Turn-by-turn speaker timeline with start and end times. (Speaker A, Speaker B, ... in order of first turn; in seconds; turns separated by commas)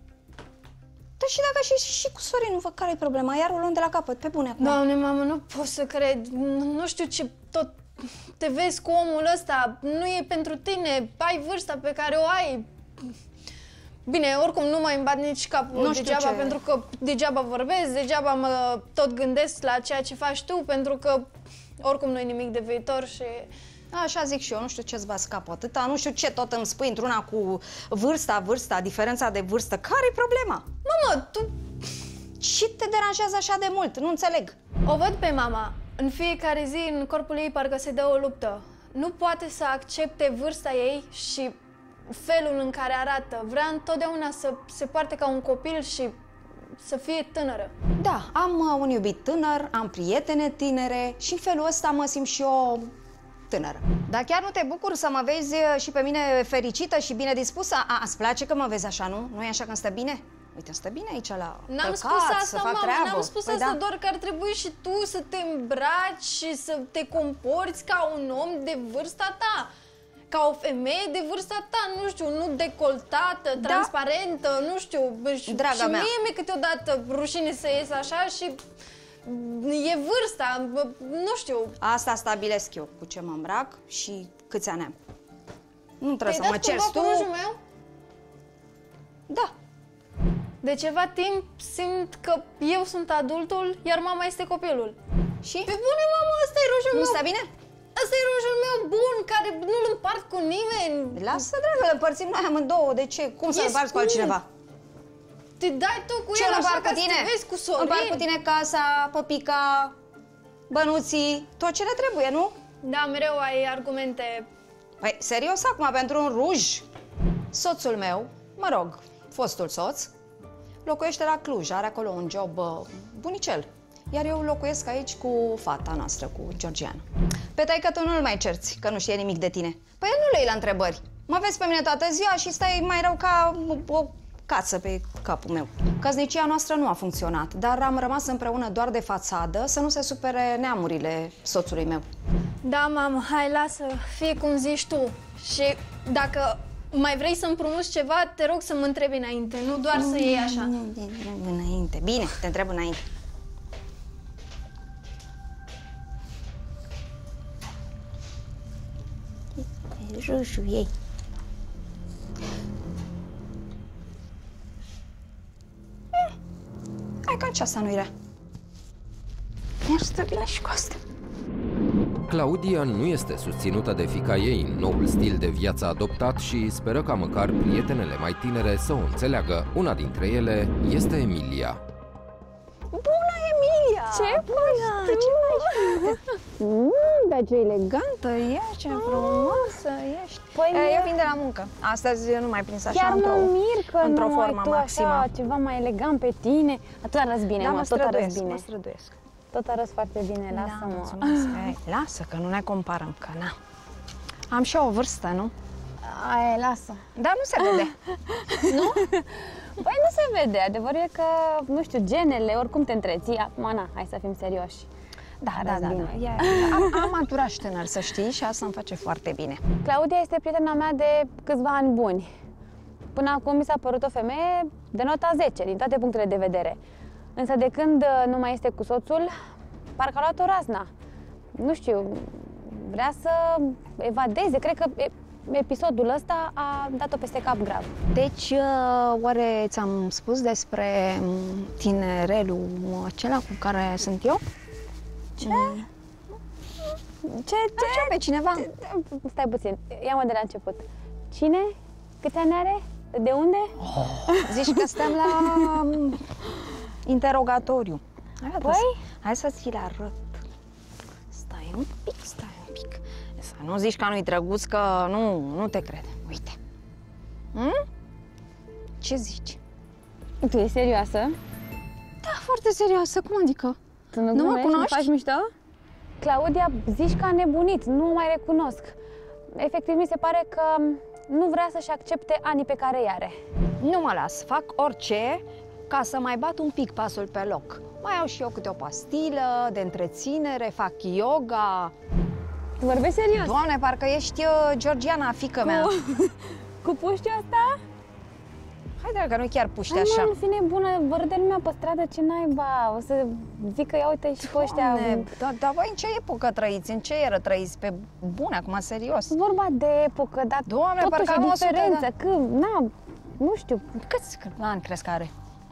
Speaker A: 1.2-4.8, Speaker B: 4.6-12.7, Speaker B: 14.1-21.3, Speaker A: 15.7-16.6, Speaker B: 21.8-23.5, Speaker A: 23.9-30.6, Speaker B: 30.8-31.5, Speaker A: 32.4-34.5, Speaker B: 34.9-41.6, Speaker B: 42.1-46.2, Speaker B: 46.8-47.7, Speaker A: 48.0-52.9, Speaker A: 53.5-63.8, Speaker B: 61.7-69.7, Speaker B: 70.3-78.6, Speaker A: 73.6-73.9, Speaker A: 75.5-76.1, Speaker B: 79.2-81.7, Speaker A: 81.8-85.0, Speaker A: 86.0-87.3, Speaker B: 86.2-87.6, Speaker B: 90.6-95.0, Speaker A: 95.4-95.7, Speaker B: 95.6-97.2, Speaker A: 96.9-97.5, Speaker B: 97.9-101.4, Speaker A: 101.2-104.5, Speaker B: 103.5-104.4, Speaker B: 105.6-108.2, Speaker A: 106.3-109.9, Speaker A: 110.7-112.5, Speaker B: 112.8-114.5, Speaker A: 115.0-116.8, Speaker A: 117.5-120.1, Speaker A: 120.8-127.0, Speaker A: 127.5-142.0, Speaker B: 142.6-150.7, Speaker A: 149.9-153.0, Speaker A: 159.6-160.9, Speaker A: 167.2-168.1, Speaker A: 169.8-171.0, Speaker C: 172.3-181.8, Speaker A: 182.9-186.2, Speaker D: 184.1-188.0, Speaker A: 187.9-195.3, Speaker D: 188.9-189.7, Speaker D: 190.5-191.1, Speaker D: 192.9-198.6, Speaker A: 197.6-199.1, Speaker D: 199.5-201.7, Speaker A: 200.5-203.5, Speaker A: 204.5-205.5, Speaker D: 206.0-207.0, Speaker A: 207.2-207.9, Speaker D: 208.3-214.9, Speaker A: 208.7-209.0, Speaker A: 215.4-219.6, Speaker D: 215.5-217.0, Speaker D: 219.8-222.3, Speaker D: 223.1-226.8, Speaker D: 227.3-229.3, Speaker D: 230.0-230.9, Speaker D: 231.6-237.9, Speaker A: 238.1-244.4, Speaker D: 245.4-245.8, Speaker A: 245.4-245.8, Speaker A: 247.2-248.7, Speaker D: 247.8-255.7, Speaker A: 253.8-256.2, Speaker A: 257.0-260.4, Speaker D: 258.6-259.0, Speaker A: 261.3-266.6, Speaker A: 267.5-267.8, Speaker A: 269.0-269.6, Speaker D: 270.4-271.4, Speaker A: 272.2-273.8, Speaker D: 274.1-275.2, Speaker A: 274.3-275.5, Speaker D: 276.2-279.0, Speaker D: 279.5-283.4, Speaker A: 283.8-291.9, Speaker D: 292.8-293.6, Speaker A: 293.4-295.9, Speaker D: 295.6-297.8, Speaker A: 299.0-300.3, Speaker D: 299.9-305.3, Speaker A: 304.4-309.3, Speaker D: 309.3-313.8, Speaker A: 310.7-312.1, Speaker A: 313.9-315.3